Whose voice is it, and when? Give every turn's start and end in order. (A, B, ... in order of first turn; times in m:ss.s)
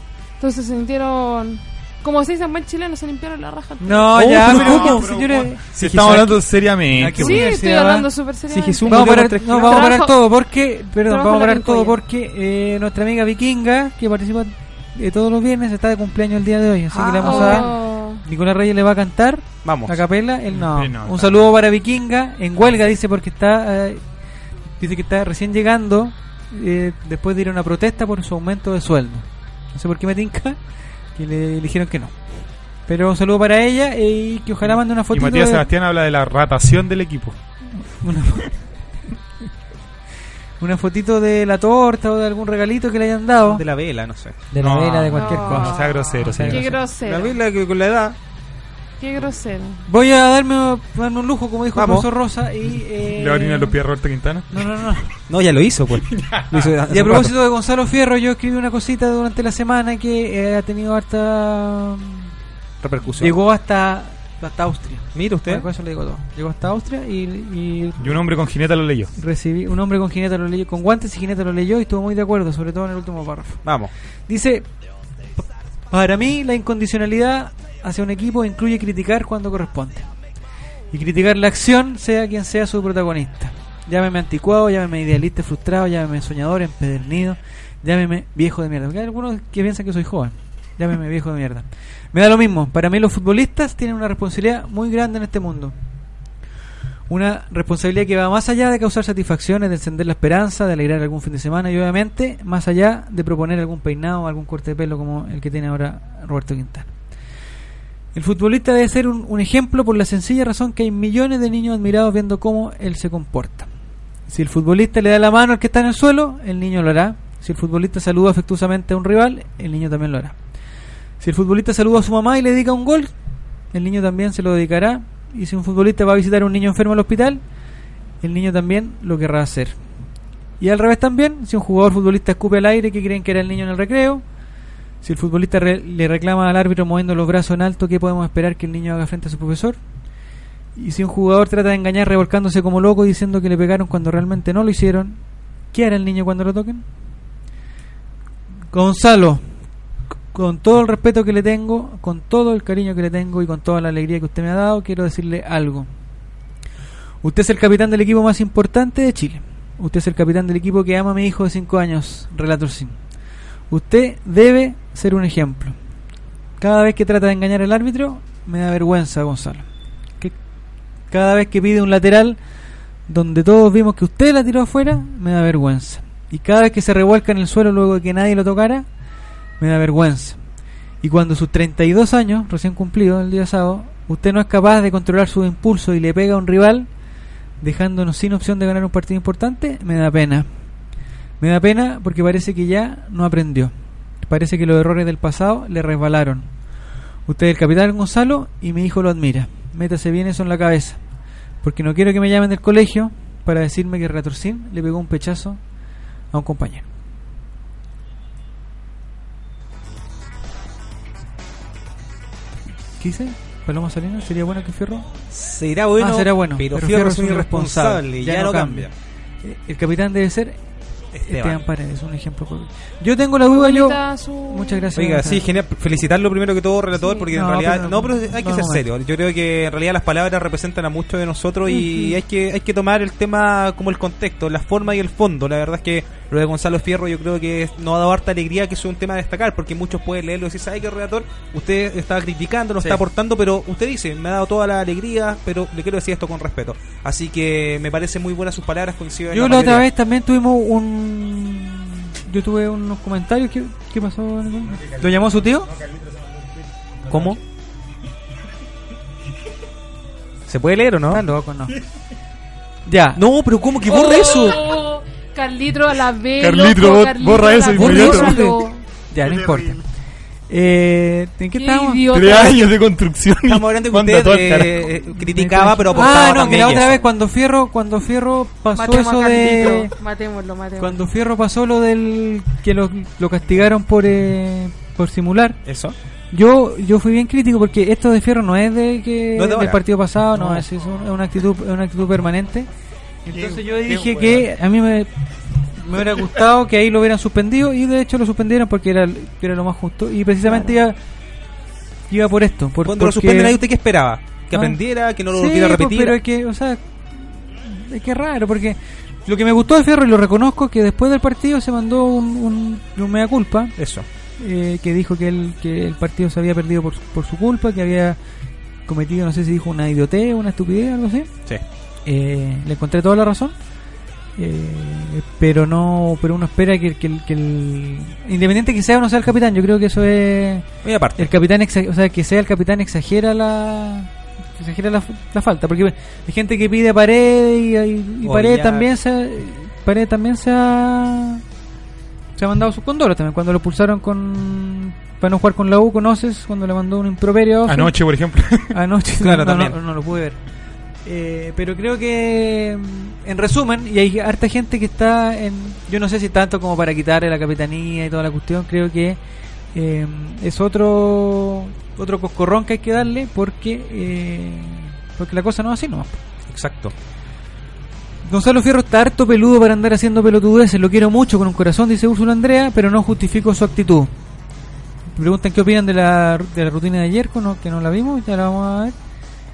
0:00.4-0:04.4 A
0:03.8-0:08.1 B
0:04.1-0:05.1 C
0:04.4-0:07.5 D
0:07.2-0:10.3 A
0:08.5-0:10.0 C
0:08.9-0:24.0 B
0:11.0-0:12.0 A
0:16.9-0:18.2 A
0:17.2-0:17.6 C
0:19.6-0:20.0 C
0:20.5-0:21.5 D
0:24.8-0:30.6 B
0:31.2-0:32.2 B
0:32.9-0:35.7 B
0:35.1-0:37.4 D
0:37.8-0:38.5 B
0:40.6-0:43.6 B
0:43.4-0:44.4 C
0:44.5-0:46.8 B
0:44.6-0:46.8 D
0:45.1-0:47.4 A
0:47.0-0:48.2 C
0:49.0-0:49.8 A
0:49.9-0:53.8 B
0:51.8-0:52.1 C
0:53.1-0:54.9 D
0:54.5-0:55.1 B
0:55.3-0:57.3 C
0:56.2-0:56.7 D
0:56.9-1:02.3 B
1:02.8-1:03.4 C
1:03.2-1:08.2 B
1:05.1-1:05.7 C
1:08.0-1:09.1 D
1:09.2-1:13.6 B
1:13.6-1:13.9 C
1:14.3-1:14.7 B
1:15.9-1:20.1 B
1:20.9-1:35.7 B
1:37.1-1:46.9 B
1:48.2-1:53.7 B
1:54.3-2:00.4 B
2:01.2-2:03.1 B
2:03.7-2:07.4 B
2:08.2-2:09.8 B
2:10.6-2:14.2 B
2:15.0-2:19.8 B
2:20.8-2:25.2 B
2:25.7-2:26.8 B
2:28.7-2:29.4 B
2:30.3-2:35.9 B
2:37.2-2:43.0 B
2:43.7-2:45.8 B
2:46.6-2:49.7 B
2:51.1-2:52.4 B
2:53.1-2:58.9 B
2:59.6-3:00.4 B
3:01.0-3:06.9 B
3:07.6-3:10.5 B
3:11.4-3:16.5 B
3:17.3-3:21.0 B
3:21.6-3:25.6 B
3:26.3-3:26.9 B
3:33.0-3:35.1 B
3:35.3-3:38.9 C
3:36.0-3:38.9 B
3:39.4-3:40.6 B
3:41.1-3:41.6 C
3:41.2-3:45.5 B
3:43.4-3:45.0 A
3:45.0-4:09.9 C
3:47.0-3:47.3 A
3:47.3-3:48.9 B
3:51.8-3:52.1 A
4:09.3-4:15.8 B
4:17.1-4:17.4 C
4:20.5-4:21.2 C
4:21.1-4:21.8 B
4:22.9-4:23.2 B
4:23.2-4:24.6 C
4:23.8-4:28.9 A
4:26.4-4:28.4 D
4:27.8-4:28.6 B
4:27.9-4:28.2 C
4:29.1-4:29.8 B
4:29.4-4:29.7 D
4:30.5-4:32.1 B
4:31.5-4:32.6 A
4:32.1-4:35.0 D
4:33.4-4:37.0 C
4:35.3-4:39.9 B
4:35.9-4:36.6 A
4:38.7-4:41.0 A
4:40.8-4:45.6 B
4:45.6-4:46.0 C
4:46.3-4:52.7 B
4:49.4-4:49.8 C
4:53.3-4:55.1 B
4:53.4-4:54.4 D
4:55.8-5:01.0 B
5:00.5-5:00.8 A
5:02.1-5:03.6 B
5:02.8-5:06.2 C
5:04.5-5:04.8 B
5:05.3-5:13.8 B
5:13.8-5:14.1 C
5:14.4-5:18.2 B
5:18.9-5:21.3 B
5:22.1-5:23.6 B
5:24.4-5:30.6 B
5:30.8-5:31.3 C
5:31.2-5:41.4 B
5:38.2-5:38.9 C
5:42.4-5:47.9 B
5:47.7-5:48.7 D
5:48.7-5:50.4 B
5:49.2-5:49.8 C
5:51.0-5:59.2 B
5:59.7-6:06.2 B
6:06.5-6:06.9 C
6:08.2-6:14.1 B
6:15.2-6:19.0 B